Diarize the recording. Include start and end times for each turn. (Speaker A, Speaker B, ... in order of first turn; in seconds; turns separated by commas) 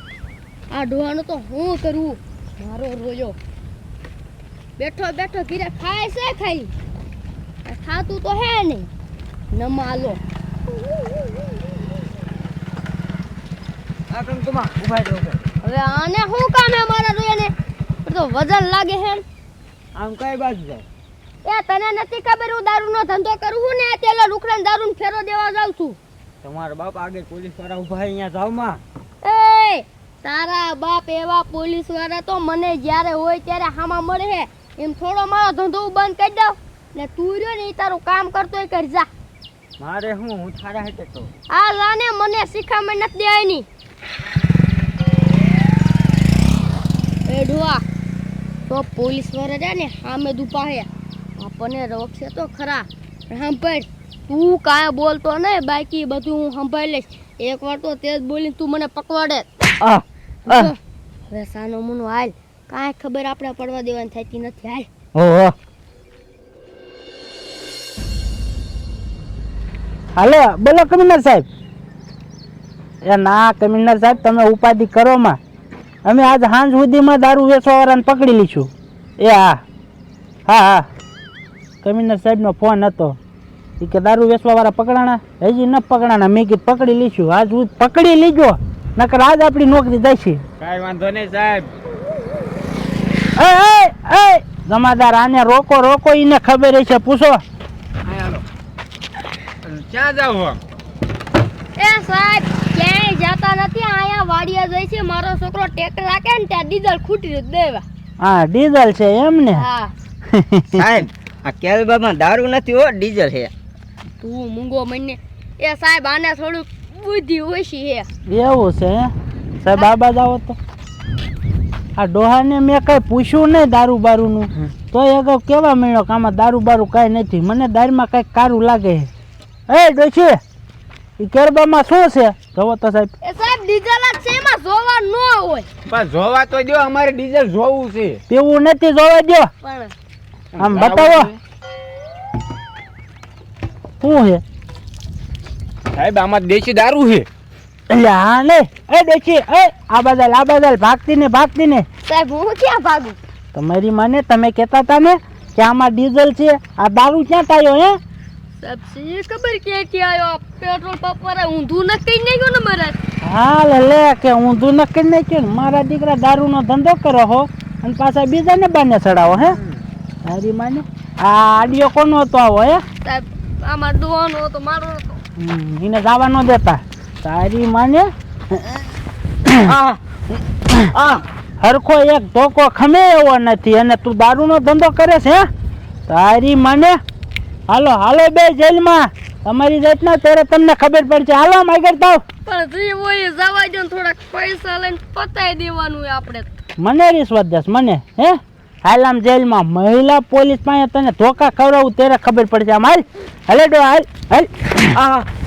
Speaker A: 0.7-3.4, Speaker A: 4.8-6.7, Speaker A: 7.7-8.9, Speaker A: 9.5-10.2, Speaker B: 14.1-15.4, Speaker A: 15.6-17.5, Speaker A: 18.1-19.2, Speaker B: 20.0-20.8, Speaker A: 21.4-26.0, Speaker B: 26.4-28.7, Speaker A: 29.2-39.1, Speaker B: 39.8-41.3, Speaker A: 41.5-43.7, Speaker A: 47.3-47.8, Speaker A: 48.7-59.5, Speaker B: 59.8-60.7, Speaker A: 60.5-60.8, Speaker A: 61.3-64.9, Speaker B: 65.2-65.5, Speaker C: 70.2-71.5, Speaker C: 73.0-75.4, Speaker C: 76.0-79.6, Speaker C: 80.5-80.9, Speaker C: 81.8-83.2, Speaker C: 83.8-90.4, Speaker D: 90.6-91.7, Speaker C: 93.4-97.4, Speaker D: 98.1-98.4, Speaker D: 99.6-100.6, Speaker A: 101.8-107.8, Speaker C: 108.2-109.6, Speaker A: 109.5-109.9, Speaker C: 110.3-110.8, Speaker B: 110.8-113.5, Speaker A: 114.2-118.1, Speaker C: 118.3-120.6, Speaker C: 122.0-129.1, Speaker C: 129.7-130.4, Speaker C: 131.2-133.1, Speaker A: 133.2-135.7, Speaker D: 135.9-138.2, Speaker C: 138.3-139.5, Speaker A: 139.6-139.9, Speaker D: 140.6-141.4, Speaker C: 140.6-141.3, Speaker C: 144.0-144.4, Speaker D: 145.9-147.3, Speaker C: 147.9-151.9, Speaker A: 152.1-153.2, Speaker C: 153.5-158.0, Speaker A: 158.6-163.0, Speaker C: 163.2-169.6, Speaker C: 170.2-172.8, Speaker A: 173.0-175.2, Speaker C: 175.4-178.8, Speaker B: 179.6-180.0, Speaker B: 180.9-181.2, Speaker C: 181.6-185.5, Speaker C: 186.1-187.0, Speaker C: 187.7-192.2, Speaker A: 192.5-196.5, Speaker C: 196.8-205.0, Speaker B: 204.9-205.3